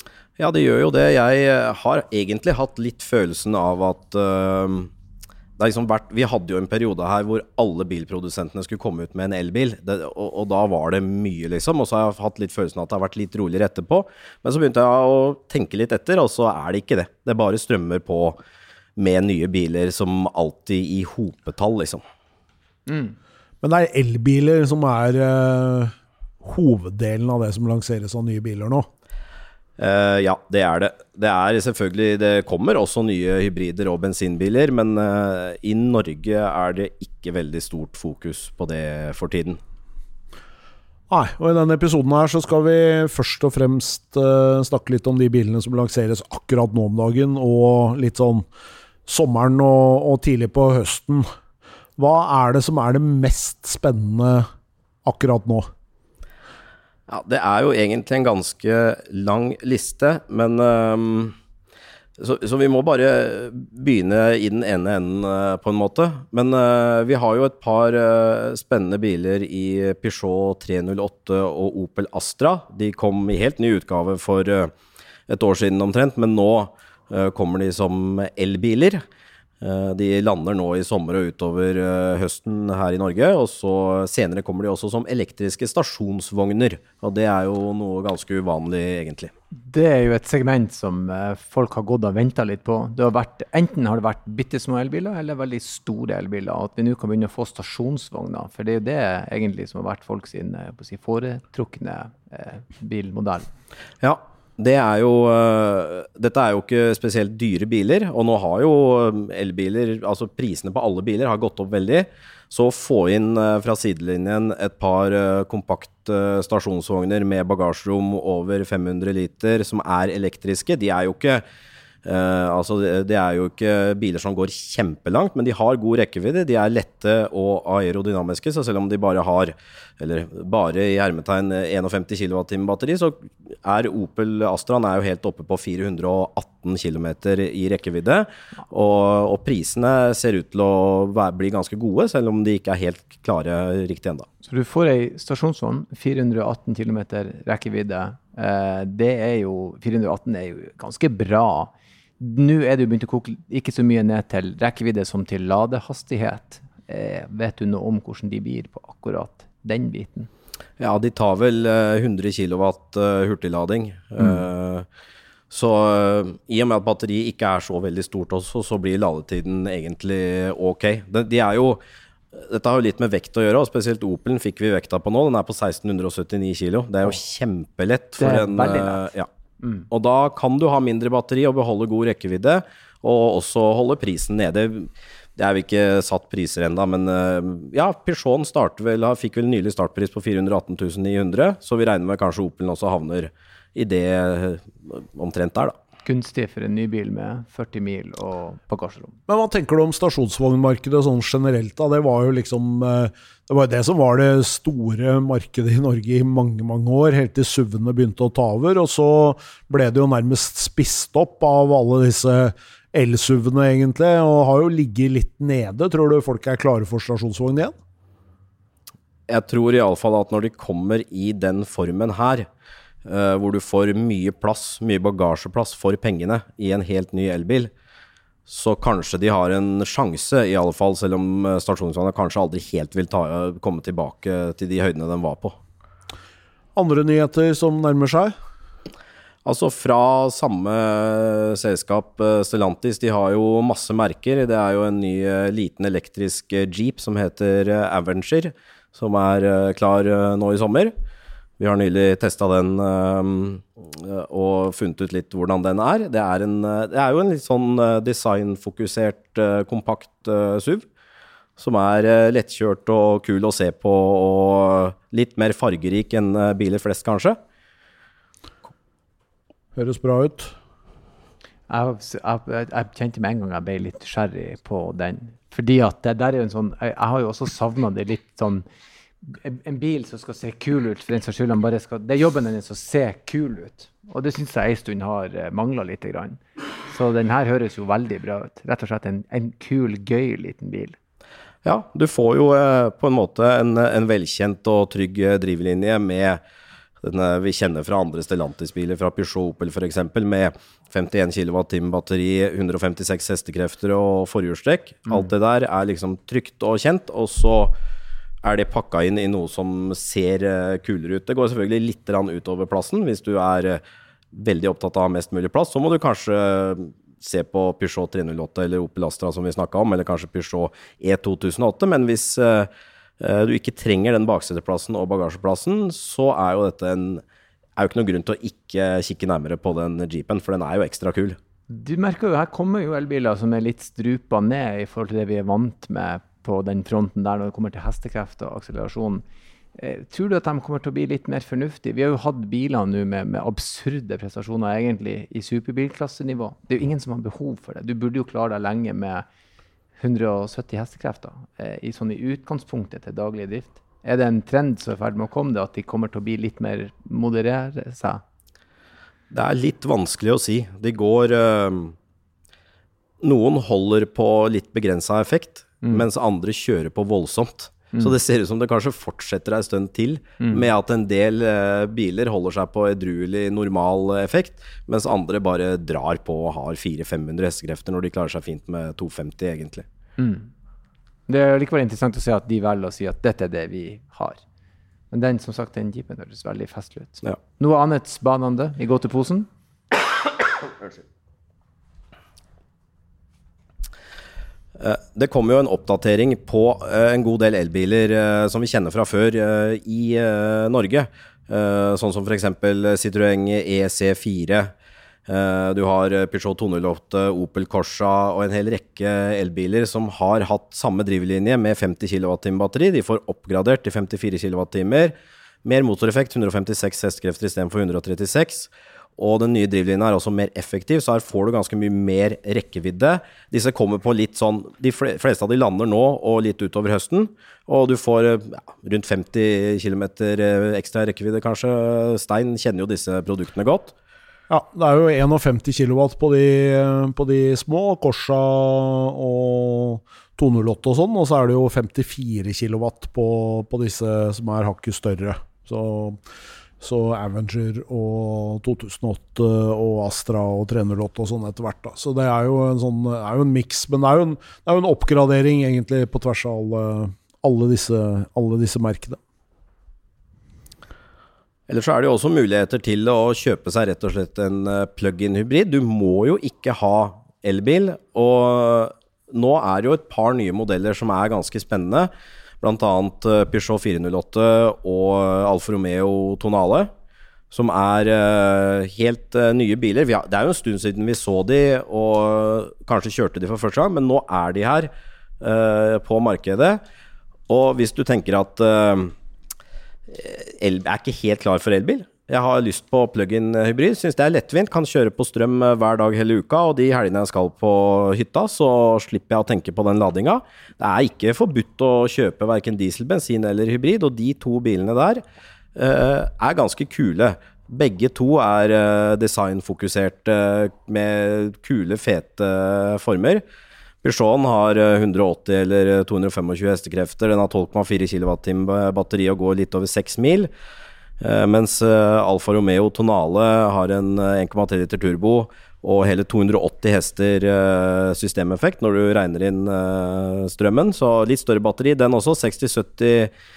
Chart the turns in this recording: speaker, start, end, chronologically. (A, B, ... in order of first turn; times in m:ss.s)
0:00.4-0:04.9 A
0:05.6-0:18.4 A
0:19.0-0:22.0 A
0:22.9-0:23.2 B
0:23.6-0:28.9 C
0:29.8-0:39.6 A
0:41.1-0:48.5 C
0:49.1-0:51.3 C
0:52.0-0:54.5 C
0:55.0-0:55.7 C
0:57.1-1:01.4 A
1:02.2-1:14.7 A
1:15.3-1:19.0 A
1:19.6-1:29.3 A
1:29.6-1:43.5 B
1:44.0-2:01.4 A
2:02.0-2:24.3 A
2:24.4-2:40.3 B
2:40.8-2:44.9 A
2:45.5-2:51.8 A
2:52.3-2:59.3 A
2:58.2-2:59.1 B
2:59.9-3:15.8 A
3:16.0-3:19.2 B
3:19.3-3:37.8 C
3:39.3-3:42.5 A
3:43.0-3:47.7 A
3:48.5-3:55.6 A
3:56.8-3:58.3 C
3:59.4-4:10.9 A
4:11.6-4:20.8 A
4:21.6-4:27.4 A
4:29.8-4:30.5 C
4:31.7-4:38.7 B
4:39.2-4:51.0 B
4:51.6-4:56.4 A
4:57.0-5:07.7 A
5:08.4-5:13.8 A
5:14.3-5:22.7 A
5:23.2-5:27.2 A
5:27.8-5:31.4 A
5:31.7-5:39.2 B
5:39.8-5:49.2 B
5:50.0-5:58.2 B
5:59.3-6:02.0 A
6:03.2-6:19.8 A
6:20.2-6:20.5 B
6:21.3-6:24.4 B
6:25.1-6:29.5 B
6:34.8-6:44.7 A
6:45.3-7:13.9 A
7:14.5-7:26.2 C
7:26.8-7:39.2 C
7:41.7-7:52.1 A
7:52.6-7:56.9 A
7:57.5-8:06.8 A
8:07.5-8:09.1 A
8:10.1-8:25.2 A
8:25.8-8:33.4 A
8:34.0-8:40.5 A
8:41.2-8:53.3 A